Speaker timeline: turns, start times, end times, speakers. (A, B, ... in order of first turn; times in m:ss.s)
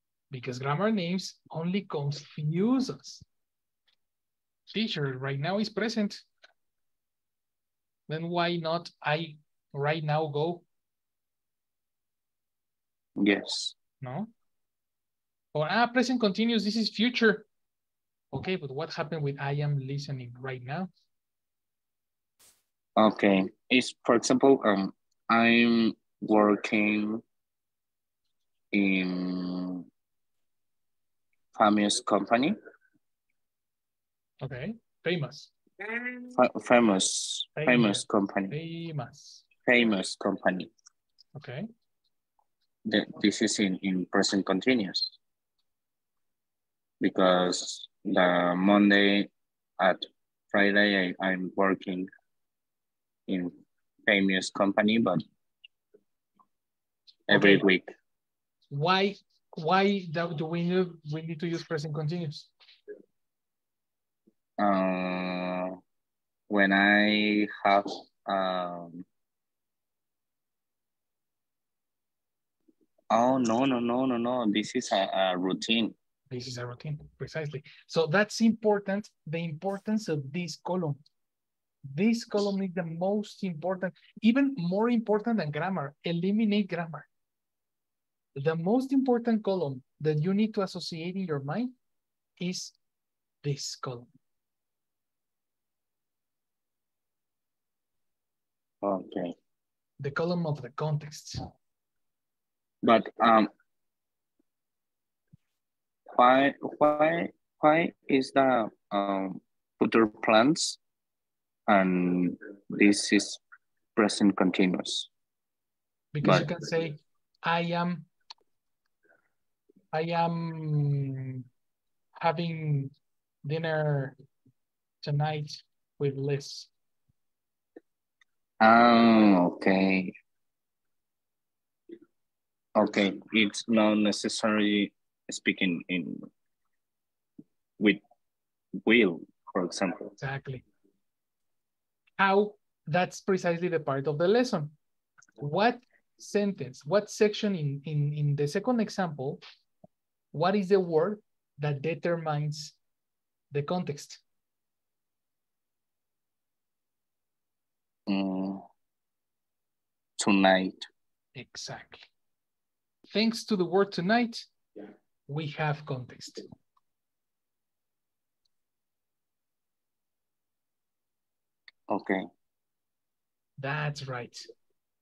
0:00.3-0:03.2 A
0:04.7-0:06.2 A
0:08.1-0:10.6 A
0:13.2-0:13.8 B
0:14.0-0:14.3 A
0:15.5-0:17.5 A
0:18.3-0:20.9 A
0:23.0-0:27.2 B
0:28.7-0:29.9 B
0:31.6-0:32.6 B
0:34.4-0:35.5 A
0:36.3-0:38.6 B
0:37.6-0:39.4 A
0:39.6-0:40.7 B
0:41.4-0:41.7 A
0:42.8-0:45.2 B
0:47.0-0:49.3 B
0:49.8-0:52.1 B
0:53.3-0:53.6 B
0:54.1-0:55.2 B
0:57.3-0:57.9 B
0:57.3-0:57.7 A
0:58.7-1:02.5 A
1:04.6-1:05.8 B
1:06.5-1:09.0 B
1:13.1-1:16.0 B
1:16.3-1:21.0 A
1:21.9-1:27.1 A
1:28.4-1:31.7 A
1:32.4-1:32.8 A
1:33.4-1:34.1 A
1:38.8-1:39.3 B
1:40.0-1:41.4 A
1:42.8-1:43.5 B
1:46.2-1:50.8 B
1:51.7-1:53.4 B
1:54.0-1:55.1 B
1:56.1-1:58.1 A
1:56.2-1:56.5 B
1:59.9-2:01.4 A
2:02.2-2:02.9 A
2:03.4-2:04.2 A
2:05.0-2:06.7 A
2:08.6-2:10.1 B
2:12.8-2:16.2 B
2:18.8-2:20.1 B
2:20.2-2:20.6 A
2:22.2-2:24.8 A
2:25.4-2:29.4 A
2:30.3-2:32.8 A
2:33.5-2:34.2 A
2:38.1-2:38.6 B
2:40.2-2:40.9 B
2:41.4-2:42.1 A
2:43.1-2:44.5 A
2:45.3-2:46.4 A
2:51.9-2:52.3 B
2:53.6-2:54.5 A